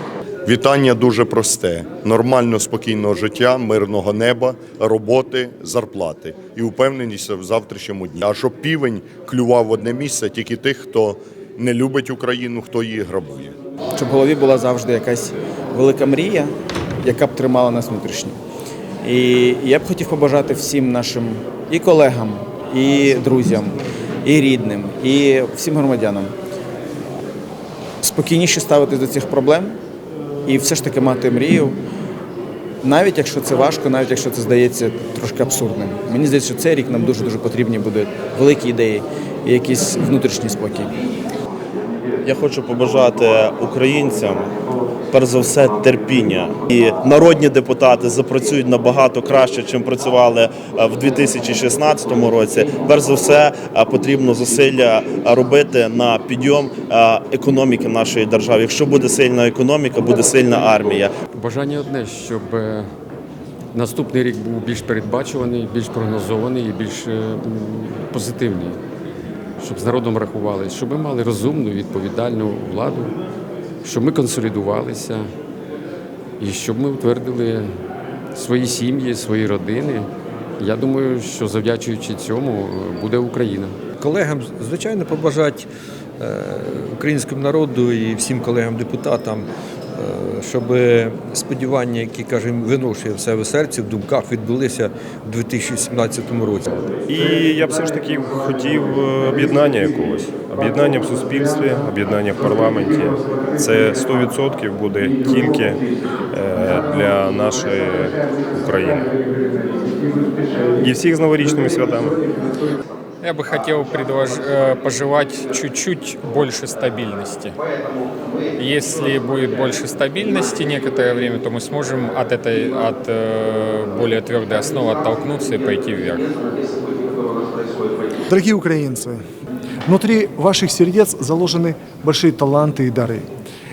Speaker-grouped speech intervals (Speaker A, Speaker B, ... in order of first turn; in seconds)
Speaker A: 0.6-13.5
Speaker B: 9.2-10.0, 11.6-12.2, 13.0-13.4, 42.2-44.5, 45.1-61.1
Speaker C: 14.0-18.4, 19.0-26.3, 28.0-29.8, 30.4-31.8, 32.8-40.9
Speaker D: 61.3-62.9, 63.7-68.8, 69.6-73.2, 73.8-75.2, 76.4-77.7, 78.3-80.1, 80.6-83.8
Speaker E: 84.0-85.7, 86.2-96.9
Speaker F: 97.1-109.1, 110.8-112.2
Speaker G: 113.2-117.6, 118.6-126.3
Speaker H: 128.3-129.2, 129.9-133.2